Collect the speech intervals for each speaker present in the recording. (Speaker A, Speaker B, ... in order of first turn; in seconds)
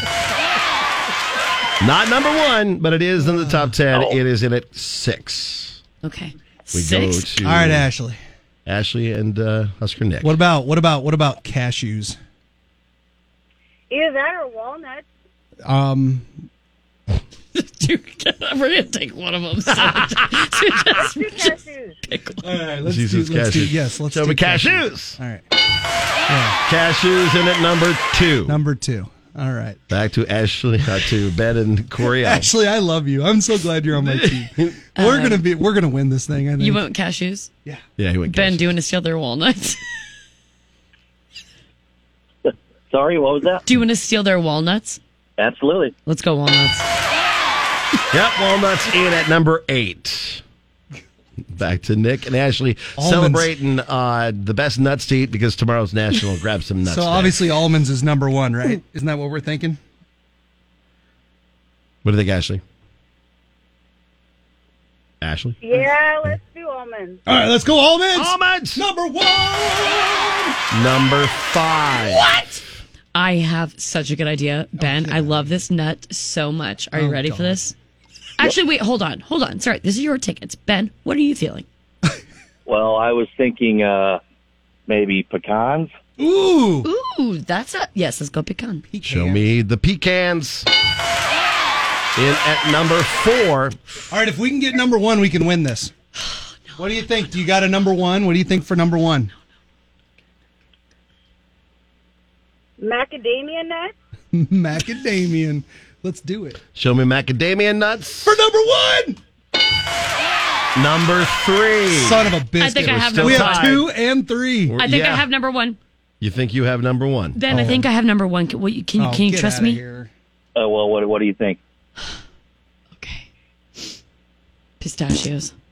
Speaker A: 1.8-5.8, 6.7-7.9, 8.7-10.4, 22.8-25.2, 26.6-28.6, 29.9-32.5, 34.0-34.7, 38.0-38.7, 48.1-50.4, 51.5-57.5, 62.0-62.6, 65.2-65.6, 68.1-68.8, 70.7-72.3, 89.0-90.7, 92.2-93.8, 106.7-108.3, 110.7-113.9, 114.7-115.3, 116.2-117.8
Speaker B: 3.3-3.6, 7.4-8.2, 10.2-12.2, 15.7-16.4, 22.4-25.4, 26.3-26.6, 28.4-29.8, 32.1-36.8, 53.0-53.5, 56.9-59.8, 67.2-70.6, 74.8-75.4, 76.9-77.6, 86.2-86.9, 88.9-89.4, 94.1-95.9, 96.8-99.3, 104.3-106.6, 108.2-109.2, 111.9-114.8, 117.5-117.8, 119.0-120.1
Speaker C: 6.0-7.3, 17.5-22.5, 35.0-35.4, 36.6-37.5, 38.3-39.8, 43.6-45.0, 46.0-46.9, 73.1-77.7, 78.4-81.7, 86.8-88.8, 112.6-113.8, 114.8-115.8, 117.3-119.8, 123.0-123.3, 124.8-125.5
Speaker D: 13.9-15.0, 21.0-22.0, 65.6-67.2, 102.8-103.9
Speaker E: 42.5-43.6, 45.4-45.9, 82.7-84.2, 84.9-85.9, 120.5-121.6